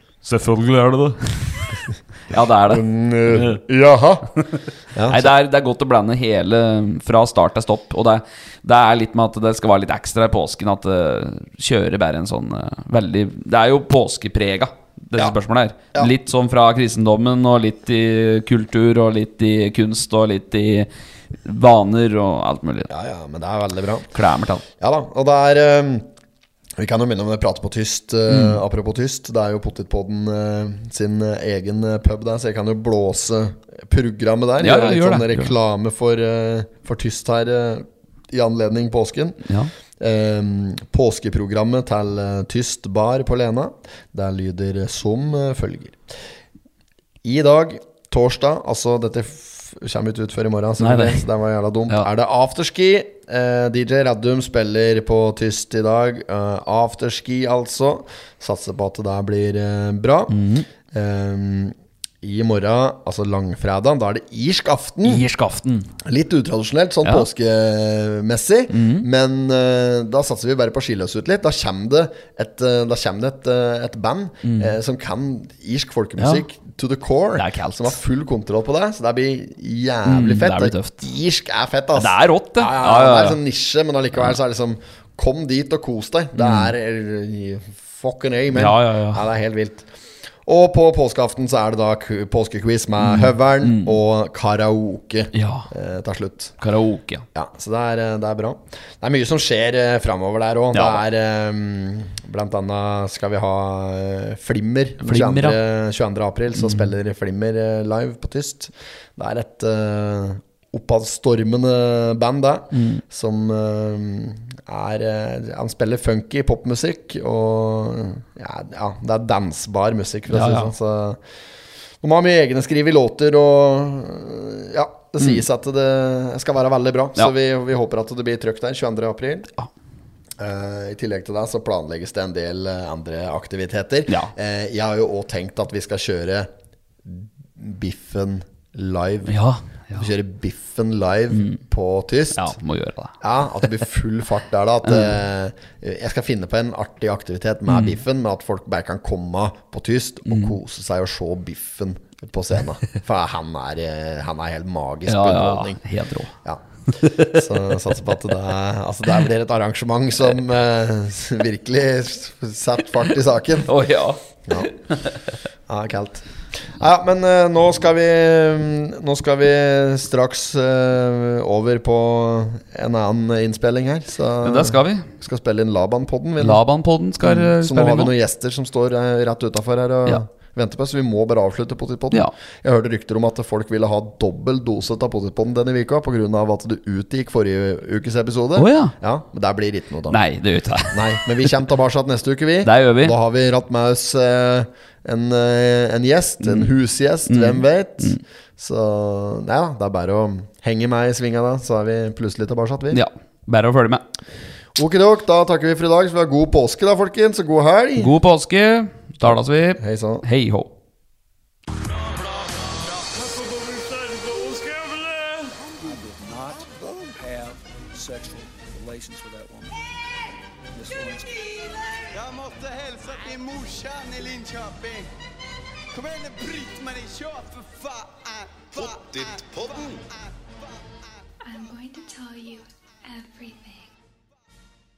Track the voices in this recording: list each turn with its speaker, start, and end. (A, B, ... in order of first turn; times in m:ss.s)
0:00.2-0:03.6 A
0:02.6-0:04.3 B
0:04.4-0:20.9 A
0:04.9-0:05.3 B
0:21.4-0:22.9 A
0:22.9-0:24.1 B
0:24.1-0:24.6 A
0:24.8-0:26.1 B
0:26.8-0:39.4 B
0:28.3-0:28.6 A
0:34.6-0:35.5 A
0:39.4-0:39.7 A
0:40.0-0:46.0 B
0:47.2-1:05.2 B
0:50.8-0:51.2 A
1:00.3-1:00.6 A
1:05.0-1:05.9 A
1:06.0-1:29.9 B
1:08.7-1:09.0 A
1:14.4-1:14.7 A
1:16.2-1:16.4 A
1:17.4-1:18.0 A
1:20.1-1:21.0 A
1:21.9-1:23.4 A
1:26.4-1:26.7 A
1:28.5-1:29.2 A
1:30.4-1:36.6 B
1:33.0-1:34.0 A
1:35.3-1:35.7 A
1:36.6-1:37.2 A
1:37.3-2:01.2 B
1:40.7-1:41.0 A
1:45.0-1:45.6 A
1:46.6-1:46.9 A
1:52.7-1:53.0 A
2:00.3-2:00.7 A
2:02.0-2:09.5 B
2:10.4-2:16.5 B
2:17.0-2:19.4 B
2:19.2-2:20.1 A
2:19.9-2:22.5 B
2:22.3-2:23.1 A
2:23.2-2:35.8 B
2:24.8-2:25.1 A
2:27.7-2:28.0 A
2:30.3-2:30.5 A
2:35.1-2:36.3 A
2:36.4-2:43.7 B
2:36.9-2:37.8 A
2:43.6-2:45.3 A
2:45.7-2:56.6 B
2:54.4-2:55.1 A
2:56.4-2:58.1 A
2:57.2-3:10.2 B
3:08.6-3:08.9 A
3:10.1-3:11.2 A
3:10.9-3:23.0 B
3:12.6-3:13.1 A
3:16.4-3:16.7 A
3:17.3-3:18.2 A
3:22.9-3:24.0 A
3:24.8-3:28.1 B
3:28.0-3:30.7 A
3:29.3-3:30.2 B
3:31.7-3:42.1 C
3:42.1-3:45.1 D
3:45.9-3:50.8 D
3:51.4-3:53.9 E